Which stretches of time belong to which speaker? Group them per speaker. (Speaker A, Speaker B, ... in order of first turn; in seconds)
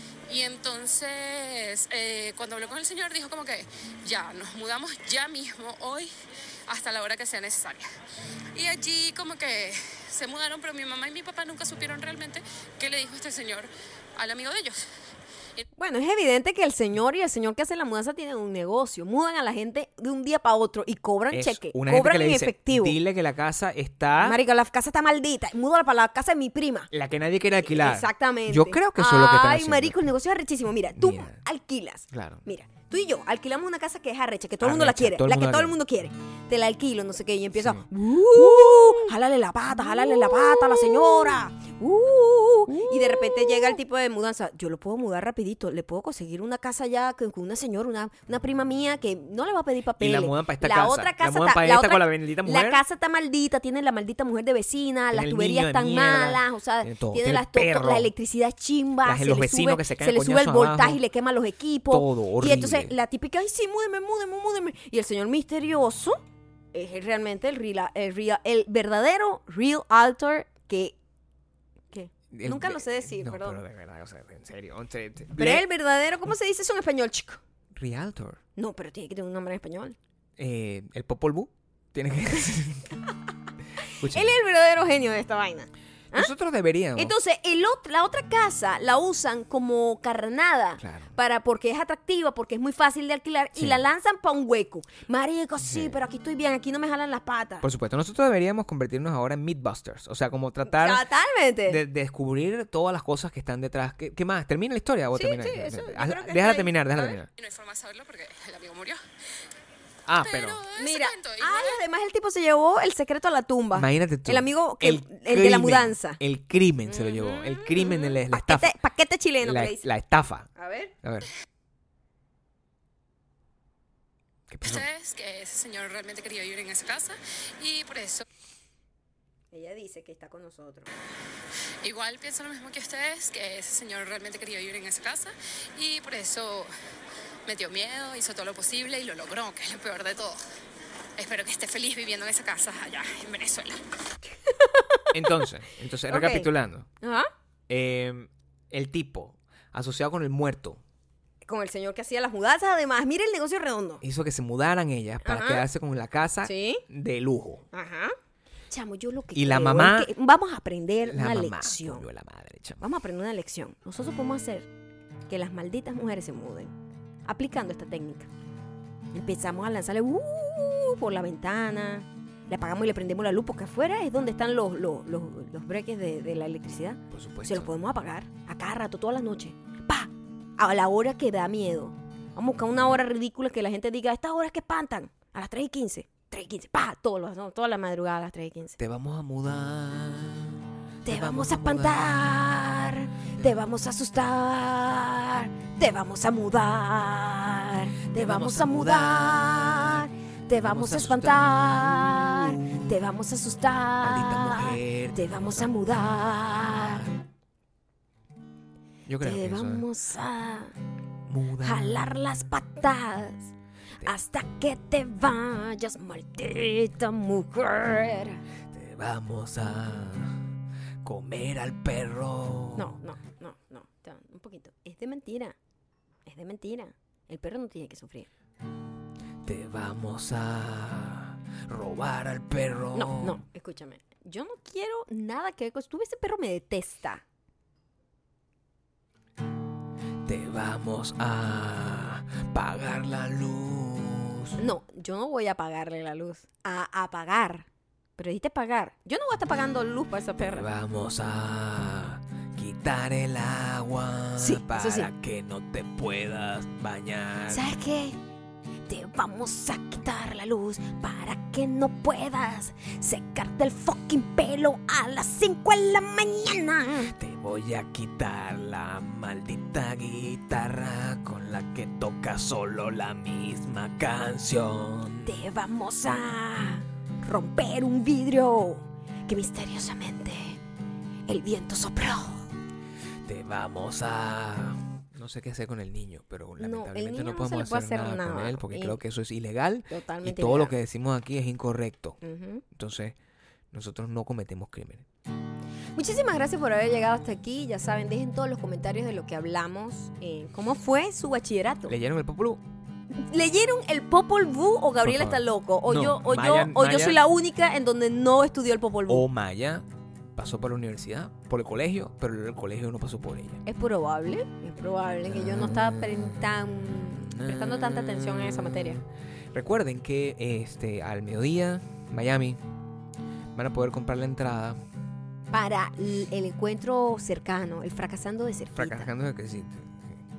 Speaker A: 0.3-6.1, 6.7-7.9, 8.5-14.8, 107.3-109.0, 110.2-111.8, 124.6-128.2, 131.8-136.7, 137.4-140.4, 141.2-143.8
Speaker B: 15.8-23.0, 24.2-26.9, 27.6-66.2, 66.7-71.0, 71.9-73.6, 75.4-77.4, 78.6-80.0, 83.8-86.3, 87.0-97.7, 100.7-101.8, 105.1-107.2, 110.7-116.2, 116.9-119.9, 120.5-120.9, 129.5-130.9, 144.5-145.4, 146.1-147.3, 151.4-154.0, 155.2-155.6, 156.4-156.8, 157.7-158.1, 158.7-162.1, 162.8-164.7, 165.3-166.7, 167.2-168.3, 169.1-188.8, 191.0-207.1, 209.2-210.7, 211.6-218.4, 222.7-225.6, 226.2-228.3, 232.9-237.2, 244.6-250.7, 254.4-255.1, 257.5-258.2, 258.9-267.1, 275.2-280.6, 281.3-282.5, 286.6-289.0, 289.9-290.7, 292.2-292.6, 295.9-301.9, 303.1-309.2, 313.6-319.0, 325.5-329.1
Speaker C: 21.3-24.4, 26.9-30.1, 30.9-31.4, 32.1-32.5, 34.6-35.8, 37.5-39.1, 39.7-41.4, 42.7-43.8, 50.0-52.8, 55.1-58.1, 59.0-61.0, 61.9-62.9, 72.3-75.6, 77.7-78.4, 80.4-83.0, 84.0-84.4, 86.1-87.1, 90.8-91.1, 93.5-93.8, 95.6-96.0, 97.6-101.0, 101.7-107.3, 110.0-110.6, 113.7-118.7, 119.4-120.5, 121.0-121.3, 124.5-124.9, 145.1-146.9, 147.7-150.8, 154.0-157.6, 159.3-160.1, 161.0-162.8, 177.1-177.7, 188.8-192.3, 198.1-202.9, 204.0-205.7, 209.1-209.8, 211.3-212.0, 218.7-220.5, 221.0-222.9, 229.4-233.4, 240.2-244.6, 250.4-257.7, 267.1-275.4, 283.2-292.2, 292.7-293.2, 293.7-295.0, 301.9-302.6, 305.0-307.2, 309.1-313.6, 315.3-316.4, 317.3-318.9, 319.5-322.6, 323.5-324.8, 328.8-330.2